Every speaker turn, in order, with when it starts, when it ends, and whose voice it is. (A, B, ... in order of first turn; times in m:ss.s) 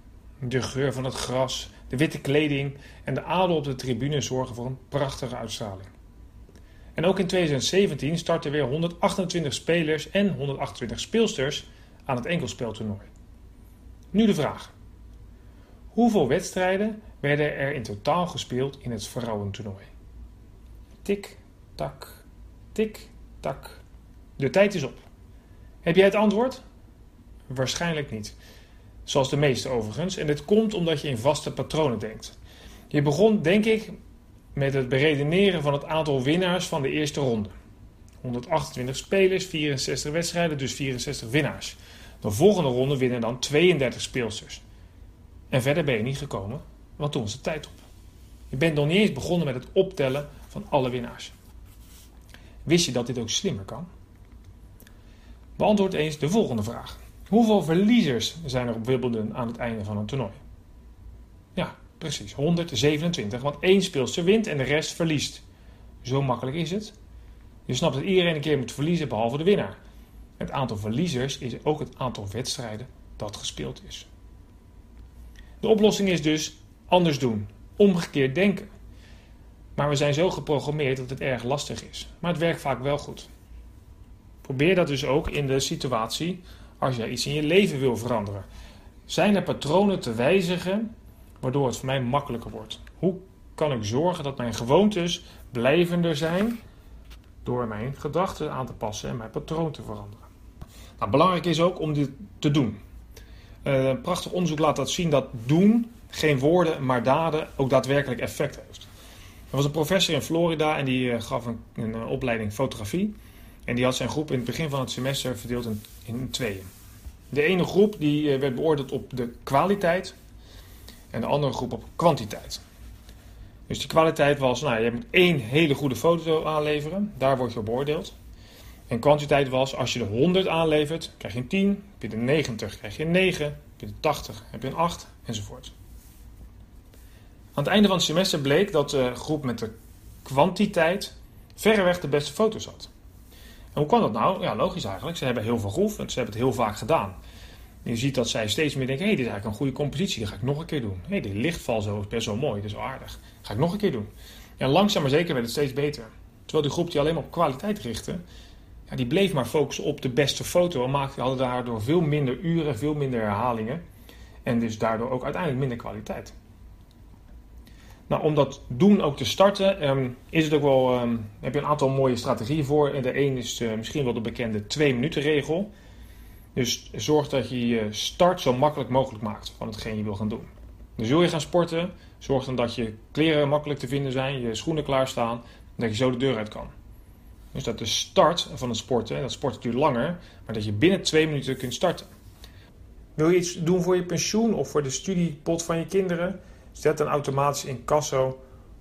0:00.4-0:05.9 A
0:07.0-0:13.1 A
0:14.1-0:14.7 A
0:15.9-0:19.9 A
0:21.0-0:23.8 A
0:24.4-0:25.0 A
0:25.8-0:26.6 A
0:27.5-0:28.4 A
0:29.0-0:32.4 A
0:32.9-0:34.0 A
0:34.6-0:37.5 A
0:38.2-0:44.6 A
0:45.5-0:47.8 A
0:48.5-0:51.3 A
0:52.6-0:53.9 A
0:55.6-1:00.4 A
1:01.6-1:05.4 A
1:06.0-1:07.0 A
1:07.7-1:09.8 A
1:10.4-1:14.1 A
1:15.6-1:18.7 A
1:19.8-1:23.3 A
1:24.4-1:28.4 A
1:29.1-1:30.9 A
1:31.4-1:36.6 A
1:37.4-1:40.3 A
1:41.0-1:42.8 A
1:43.6-1:48.9 A
1:49.5-1:53.2 A
1:53.7-1:56.7 A
1:57.3-2:00.2 A
2:01.1-2:02.6 A
2:03.7-2:08.2 A
2:08.9-2:15.7 A
2:17.6-2:19.7 A
2:20.2-2:22.9 A
2:23.8-2:27.2 A
2:27.8-2:38.2 A
2:38.9-2:43.8 A
2:44.4-2:46.4 A
2:48.1-2:55.7 A
2:56.6-3:06.7 A
3:07.5-3:12.1 A
3:13.2-3:18.4 A